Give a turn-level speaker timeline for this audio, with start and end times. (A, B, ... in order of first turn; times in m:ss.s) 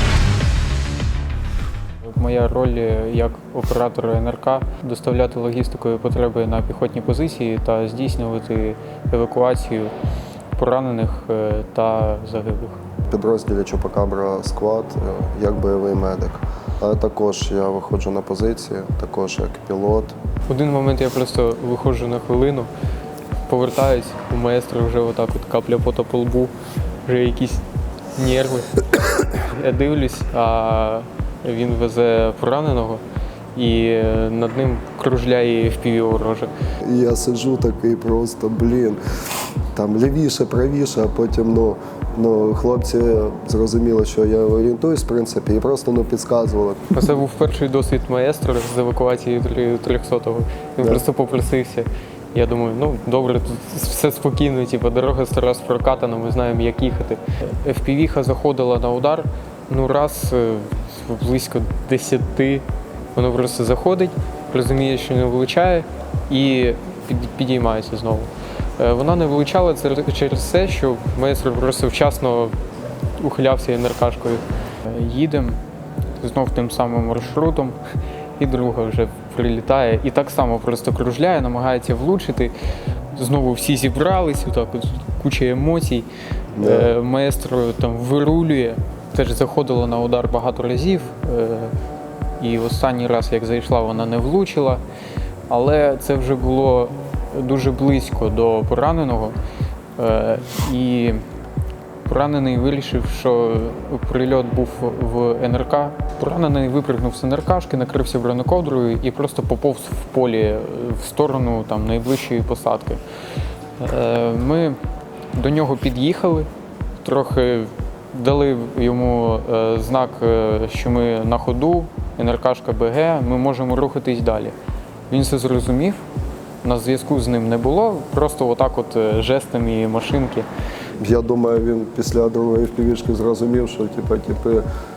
0:02.0-0:09.9 A
0:10.6-0:12.8 A
0:13.1-0:20.2 B
0:20.5-0:22.7 A
0:23.5-0:26.5 A
0:27.0-0:27.6 A
0:28.1-0:33.0 A
0:33.5-0:36.5 A
0:36.8-0:39.0 B
0:39.7-0:47.1 B
0:46.9-1:12.5 A
1:13.2-1:15.6 A
1:16.2-1:17.8 A
1:18.4-1:22.5 A
1:23.1-1:26.1 A
1:26.6-1:26.9 B
1:26.6-1:31.7 A
1:32.4-1:34.8 A
1:35.5-1:39.3 A
1:40.0-1:41.2 A
1:42.0-1:53.0 A
1:53.8-1:54.8 A
1:55.3-1:56.5 A
1:57.0-2:04.5 A
2:05.1-2:06.0 A
2:06.6-2:10.5 A
2:11.0-2:14.6 B